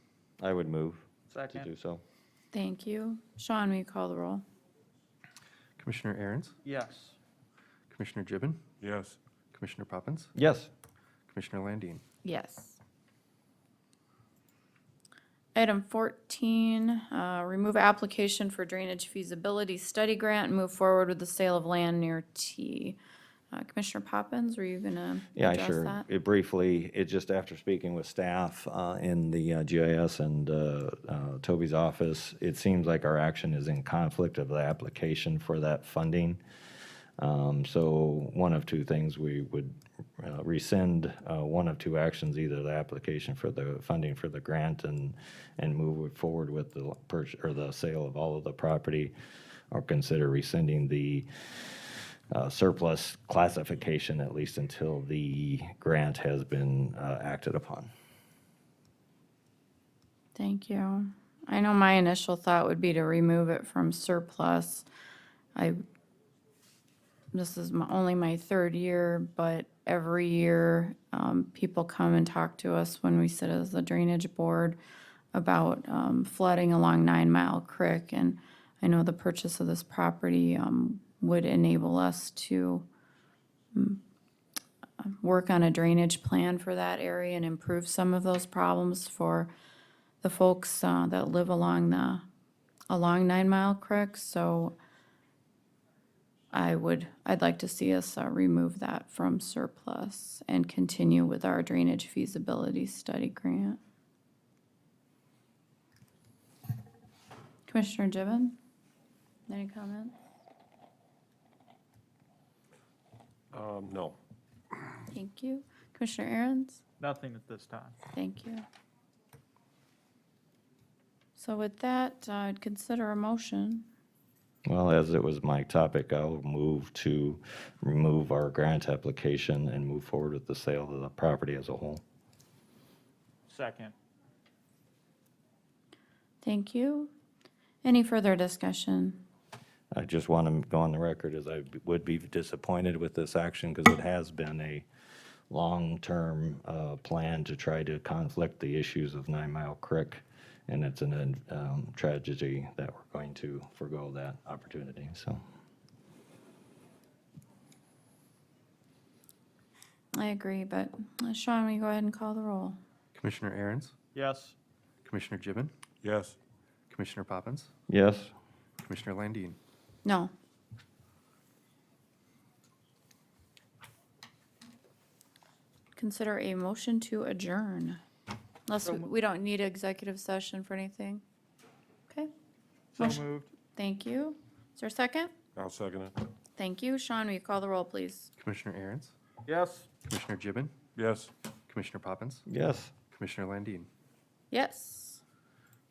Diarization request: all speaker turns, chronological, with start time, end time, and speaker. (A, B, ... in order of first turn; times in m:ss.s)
0:00.4-0:02.0 A
0:01.3-0:01.7 B
0:02.5-0:04.4 C
0:05.8-0:06.6 D
0:06.6-0:07.2 B
0:07.9-0:08.6 D
0:08.8-0:09.2 E
0:09.5-0:10.3 D
0:10.4-0:10.7 A
0:11.3-0:12.0 D
0:12.2-0:12.8 C
0:15.6-0:23.0 C
0:23.5-0:26.0 C
0:25.4-0:36.4 A
0:37.2-0:49.1 A
0:49.7-0:57.9 A
1:00.4-1:04.9 C
1:05.6-1:05.8 C
1:07.3-1:14.8 C
1:15.3-1:22.9 C
1:23.7-1:24.0 C
1:25.0-1:29.5 C
1:30.2-1:32.2 C
1:32.9-1:34.8 C
1:36.5-1:43.8 C
1:47.7-1:48.6 C
1:49.5-1:50.2 C
1:53.5-1:54.2 E
1:55.1-1:56.8 C
1:57.0-1:58.0 B
1:58.1-1:58.6 C
2:01.4-2:03.9 C
2:04.7-2:12.0 A
2:13.5-2:14.0 B
2:16.4-2:17.1 C
2:17.8-2:19.2 C
2:19.9-2:24.9 A
2:25.5-2:35.4 A
2:40.2-2:42.8 C
2:43.2-2:43.9 D
2:44.2-2:44.6 B
2:45.0-2:45.7 D
2:46.0-2:46.4 E
2:46.9-2:47.7 D
2:47.9-2:48.3 A
2:48.8-2:49.6 D
2:50.0-2:50.3 C
2:56.0-2:58.0 C
2:58.7-3:01.2 C
3:03.0-3:03.5 B
3:03.0-3:03.2 C
3:03.8-3:05.3 C
3:05.6-3:06.1 E
3:06.6-3:08.3 C
3:08.4-3:09.1 D
3:09.5-3:09.9 B
3:10.1-3:10.8 D
3:11.0-3:11.3 E
3:11.7-3:12.4 D
3:12.5-3:12.9 A
3:13.1-3:13.9 D
3:14.5-3:15.2 C